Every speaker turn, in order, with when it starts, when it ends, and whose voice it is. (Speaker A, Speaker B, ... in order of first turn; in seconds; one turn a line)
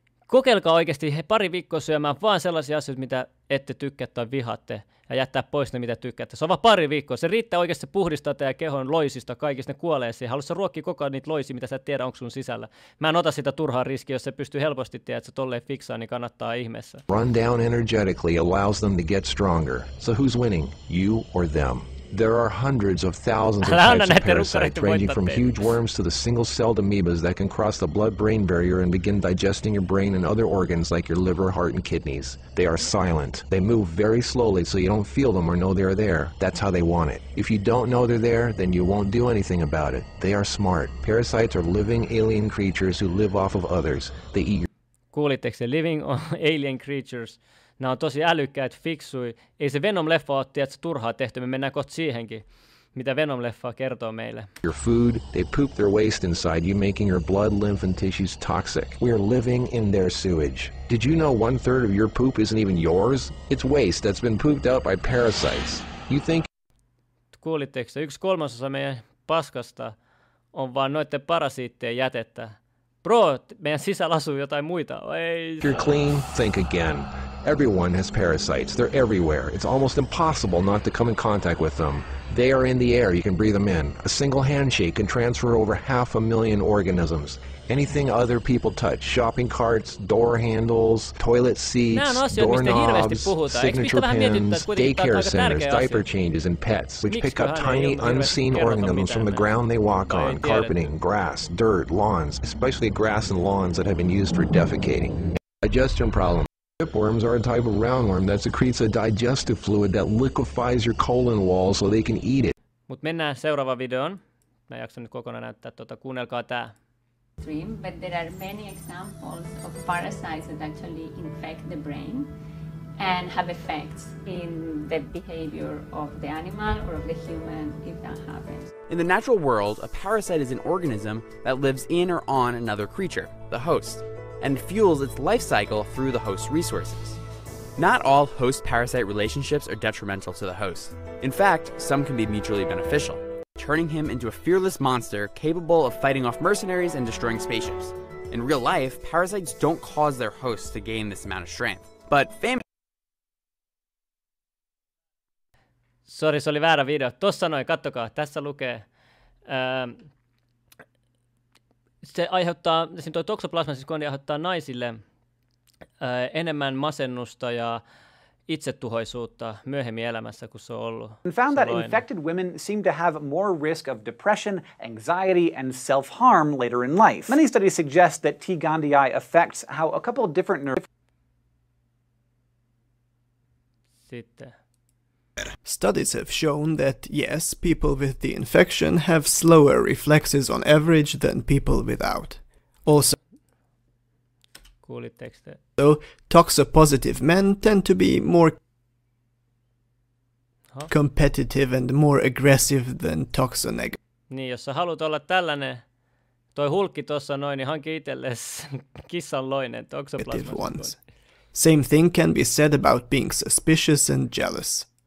Speaker A: 0.3-17.0
Speaker B: 17.1-44.7
Speaker A: 23.6-25.8
Speaker A: 45.1-54.5
Speaker B: 54.6-66.5
Speaker A: 67.3-69.9
Speaker A: 70.5-76.0
Speaker B: 75.6-112.5
Speaker A: 91.9-96.0
Speaker A: 97.1-99.5
Speaker A: 100.1-100.8
Speaker A: 112.9-116.7
Speaker C: 117.4-122.3
Speaker C: 123.0-128.7
Speaker D: 128.9-137.2
Speaker D: 137.8-152.6
Speaker A: 156.1-158.8
Speaker A: 159.5-160.1
Speaker A: 162.0-165.0
Speaker A: 166.0-167.8
Speaker A: 168.5-172.0
Speaker E: 171.2-180.8
Speaker A: 184.1-184.6
Speaker F: 185.6-193.2
Speaker A: 194.8-195.6
Speaker F: 195.8-198.6
Speaker F: 200.9-204.0
Speaker A: 204.3-205.8
Speaker A: 206.5-211.0
Speaker F: 210.2-211.0
Speaker F: 211.5-214.9